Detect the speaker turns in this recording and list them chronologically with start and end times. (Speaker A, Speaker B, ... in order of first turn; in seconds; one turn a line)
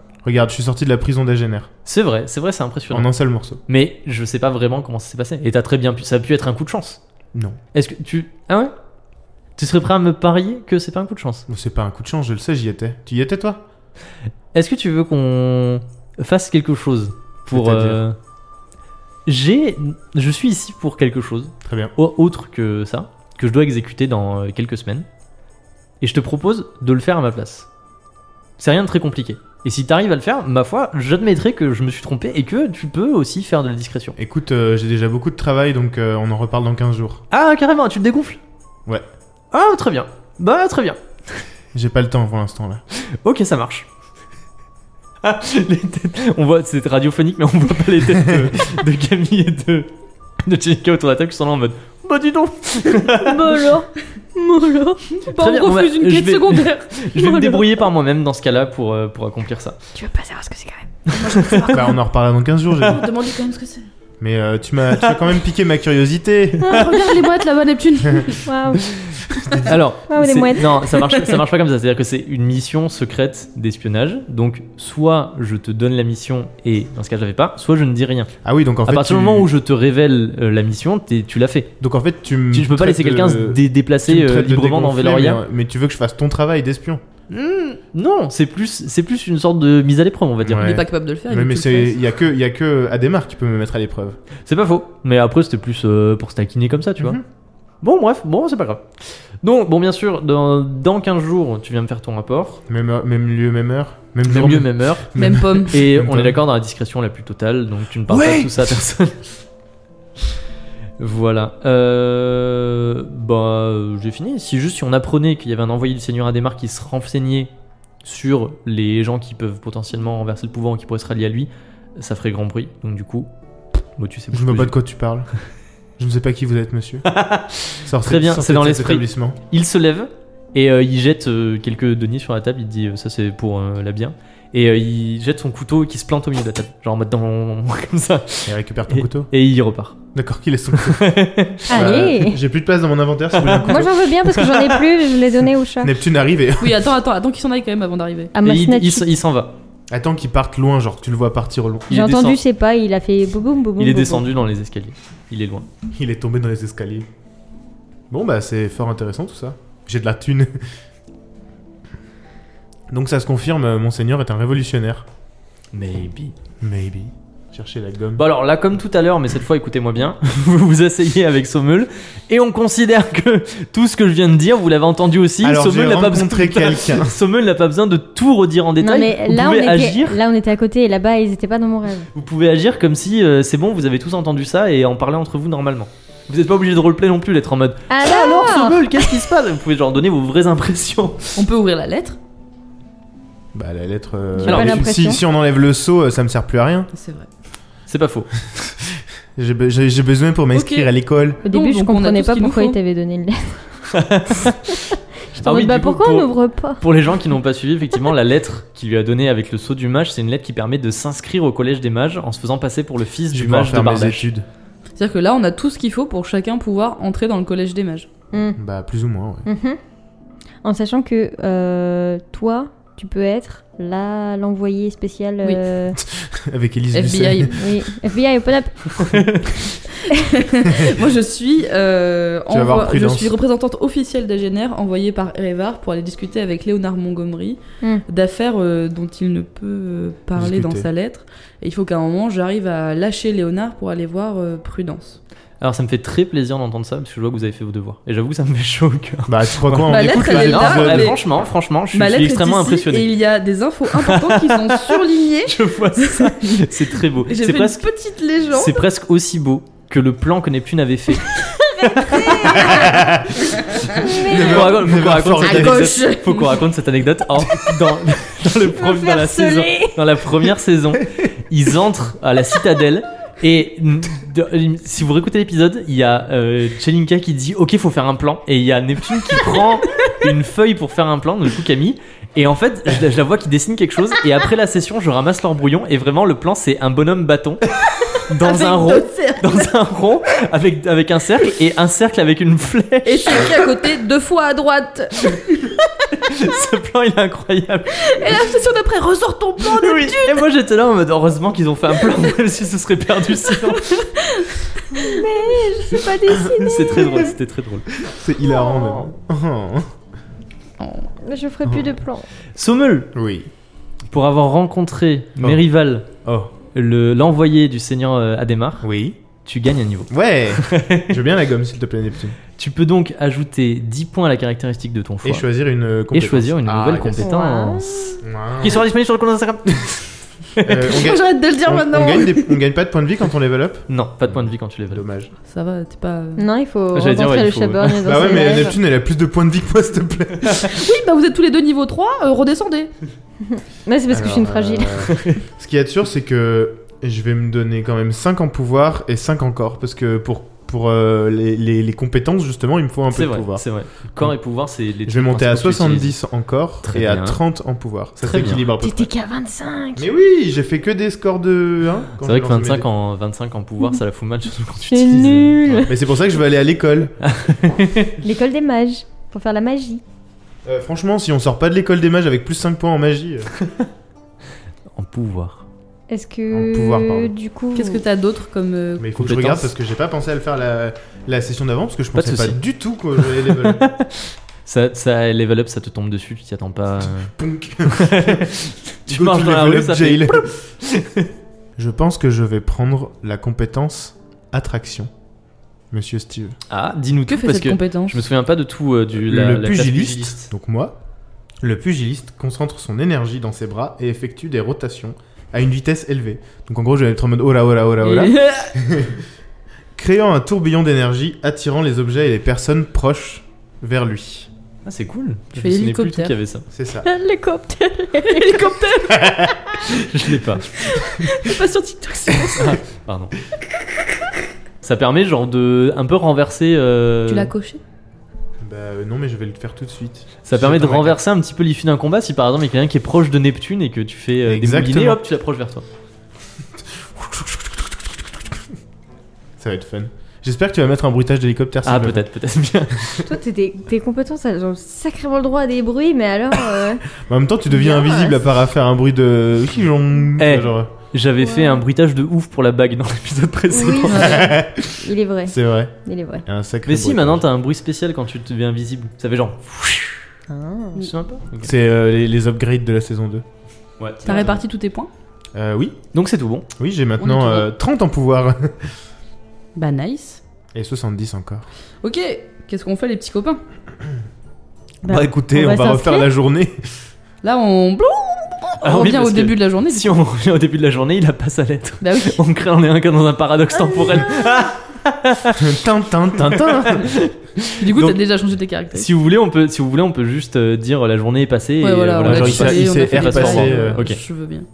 Speaker A: 0.2-1.7
Speaker B: 1.9-3.1
Speaker A: 2.9-3.6
Speaker B: 3.7-7.0
Speaker A: 7.3-7.6
Speaker B: 7.7-8.7
Speaker B: 9.6-11.5
Speaker A: 11.5-13.6
Speaker B: 14.5-18.2
Speaker A: 17.5-18.0
Speaker B: 19.3-25.1
Speaker A: 21.6-21.9
Speaker B: 26.0-27.7
Speaker B: 28.6-34.2
Speaker A: 34.2-37.2
Speaker B: 37.3-38.4
Speaker B: 39.5-41.0
Speaker A: 41.7-42.8
Speaker B: 42.9-43.9
Speaker B: 45.2-49.9
Speaker A: 48.2-48.6
Speaker B: 50.4-53.7
Speaker C: 53.1-55.1
Speaker D: 55.2-57.6
Speaker B: 55.3-59.8
Speaker C: 60.0-61.1
Speaker D: 61.1-62.0
Speaker B: 61.3-61.7
Speaker A: 61.7-63.1
Speaker D: 62.8-63.9
Speaker A: 64.2-66.9
Speaker D: 66.6-68.4
Speaker C: 66.7-67.0
Speaker C: 68.3-69.0
Speaker A: 69.3-69.7
Speaker C: 69.5-70.9
Speaker B: 69.6-78.3
Speaker A: 78.4-79.5
Speaker B: 78.8-81.7
Speaker A: 81.8-87.0
Speaker B: 82.5-85.4
Speaker B: 87.3-90.8
Speaker A: 90.4-94.2
Speaker D: 90.5-91.9
Speaker B: 94.5-97.2
Speaker A: 97.0-97.2
Speaker B: 97.8-102.6
Speaker A: 102.7-106.4
Speaker B: 104.2-109.2
Speaker D: 105.2-105.8
Speaker A: 108.1-108.7
Speaker B: 111.0-117.5
Speaker B: 118.0-123.3
Speaker B: 124.0-124.7
Speaker A: 124.3-125.3
Speaker A: 126.0-127.1
Speaker B: 127.0-140.0
Speaker A: 127.8-129.4
Speaker A: 138.5-139.3
Speaker A: 140.1-144.0
Speaker B: 140.7-142.0
Speaker C: 141.7-142.4
Speaker B: 143.3-144.9
Speaker C: 143.6-145.9
Speaker A: 145.8-146.8
Speaker D: 146.6-148.3
Speaker C: 148.3-149.1
Speaker B: 148.4-149.6
Speaker A: 149.9-152.0
Speaker B: 151.9-152.4
Speaker C: 151.9-154.3
Speaker B: 153.8-155.7
Speaker A: 155.9-157.1
Speaker A: 158.1-160.7
Speaker A: 162.9-165.1
Speaker B: 165.7-166.3
Speaker A: 166.6-168.2
Speaker B: 168.2-180.2
Speaker A: 175.4-177.2
Speaker C: 178.8-182.1
Speaker B: 182.1-191.4
Speaker C: 187.9-189.2
Speaker D: 191.4-192.2
Speaker A: 193.5-196.9
Speaker C: 194.4-195.2
Speaker B: 194.5-194.8
Speaker D: 196.9-197.3
Speaker B: 197.9-198.3
Speaker A: 198.8-201.4
Speaker D: 200.5-200.9
Speaker C: 201.4-203.7
Speaker D: 201.5-202.8
Speaker B: 203.9-204.8
Speaker C: 204.5-206.8
Speaker B: 205.3-214.3
Speaker A: 213.3-214.5
Speaker D: 215.0-218.1
Speaker C: 218.3-218.6
Speaker A: 218.6-219.5
Speaker C: 219.5-219.8
Speaker C: 220.6-226.0
Speaker A: 226.0-227.7
Speaker D: 226.9-227.7
Speaker C: 227.5-229.2
Speaker B: 228.9-229.6
Speaker D: 229.9-245.2
Speaker A: 232.5-233.4
Speaker A: 240.4-240.9
Speaker B: 245.6-253.1
Speaker A: 249.3-251.2
Speaker D: 249.9-251.2
Speaker D: 251.9-258.9
Speaker B: 254.0-257.9
Speaker B: 258.5-262.9
Speaker C: 261.5-263.1
Speaker D: 262.0-262.9
Speaker A: 262.5-265.9
Speaker D: 263.6-264.1
Speaker C: 263.9-264.8
Speaker B: 264.0-293.5
Speaker D: 265.4-266.7
Speaker C: 268.6-270.0
Speaker D: 288.2-289.7
Speaker D: 293.1-295.8
Speaker B: 296.1-298.4
Speaker D: 298.0-300.5
Speaker B: 299.6-304.1
Speaker D: 303.5-305.2
Speaker C: 304.9-307.4
Speaker A: 306.3-306.6
Speaker B: 306.6-307.9
Speaker A: 308.0-309.9
Speaker C: 308.5-309.0
Speaker D: 310.8-311.1
Speaker C: 311.2-312.3
Speaker A: 311.6-311.9
Speaker B: 312.6-313.1
Speaker A: 313.1-313.5
Speaker B: 314.1-316.1
Speaker A: 316.2-316.5
Speaker B: 316.7-318.9
Speaker A: 318.8-319.2
Speaker B: 319.4-321.2
Speaker A: 320.1-322.4
Speaker B: 322.6-325.5
Speaker A: 325.2-327.3
Speaker B: 326.1-327.9
Speaker C: 327.2-328.2
Speaker A: 328.2-328.8
Speaker B: 328.6-330.2
Speaker A: 330.6-335.3
Speaker D: 330.8-332.6
Speaker B: 333.9-335.0
Speaker D: 335.5-336.5
Speaker C: 336.4-338.8
Speaker B: 336.9-338.3
Speaker A: 338.0-340.9
Speaker D: 340.6-342.9
Speaker C: 343.5-345.1
Speaker A: 344.1-353.7
Speaker B: 345.1-345.4
Speaker B: 353.1-356.2
Speaker A: 355.1-359.1
Speaker B: 356.8-357.4
Speaker B: 358.2-358.6
Speaker C: 358.8-360.1
Speaker A: 360.0-362.9
Speaker B: 362.2-365.9
Speaker C: 364.9-365.9
Speaker A: 365.7-367.1
Speaker B: 367.2-368.2
Speaker C: 368.2-370.0
Speaker A: 370.6-373.5
Speaker B: 375.0-375.7
Speaker C: 376.1-378.0
Speaker A: 376.5-377.3
Speaker D: 377.7-379.5
Speaker A: 379.0-383.8
Speaker B: 379.2-379.7
Speaker B: 382.1-382.6
Speaker B: 383.2-387.3
Speaker A: 387.0-388.5
Speaker B: 387.9-391.3
Speaker A: 389.1-390.5
Speaker A: 391.8-395.1
Speaker A: 395.9-396.6
Speaker B: 396.7-400.5
Speaker D: 397.3-398.3
Speaker A: 399.2-401.0
Speaker A: 401.6-409.2
Speaker D: 408.0-408.7
Speaker A: 410.0-414.5
Speaker B: 414.9-416.6
Speaker D: 415.6-416.4
Speaker A: 416.7-417.1
Speaker C: 417.0-418.8
Speaker D: 418.2-419.7
Speaker B: 419.9-420.8
Speaker C: 421.0-421.6
Speaker D: 421.0-422.8
Speaker B: 422.6-423.4
Speaker B: 424.8-427.5
Speaker D: 427.3-427.8
Speaker A: 428.6-431.2
Speaker B: 430.4-435.9
Speaker A: 434.4-435.2
Speaker A: 436.9-438.1
Speaker A: 439.6-442.2
Speaker B: 441.8-443.3
Speaker C: 443.2-447.1
Speaker A: 447.2-450.9
Speaker C: 447.7-448.4
Speaker B: 450.4-454.5
Speaker C: 451.4-451.8
Speaker C: 453.7-456.4
Speaker D: 454.0-454.4
Speaker A: 454.2-457.4
Speaker B: 456.9-460.3
Speaker C: 460.5-461.1
Speaker B: 461.0-461.7
Speaker A: 461.6-463.4
Speaker B: 464.0-464.5
Speaker D: 464.2-465.1
Speaker A: 464.3-464.6
Speaker A: 465.6-466.0
Speaker B: 466.1-466.7
Speaker A: 466.8-468.9
Speaker D: 467.2-467.7
Speaker D: 469.8-470.4
Speaker A: 470.8-471.7
Speaker D: 472.0-473.6
Speaker C: 475.0-476.3
Speaker A: 475.1-476.9
Speaker D: 477.4-480.2
Speaker B: 478.8-485.7
Speaker D: 482.0-482.4
Speaker A: 485.6-487.1
Speaker B: 486.4-488.2
Speaker D: 487.8-489.1
Speaker B: 488.9-494.2
Speaker D: 491.8-494.7
Speaker A: 492.2-494.0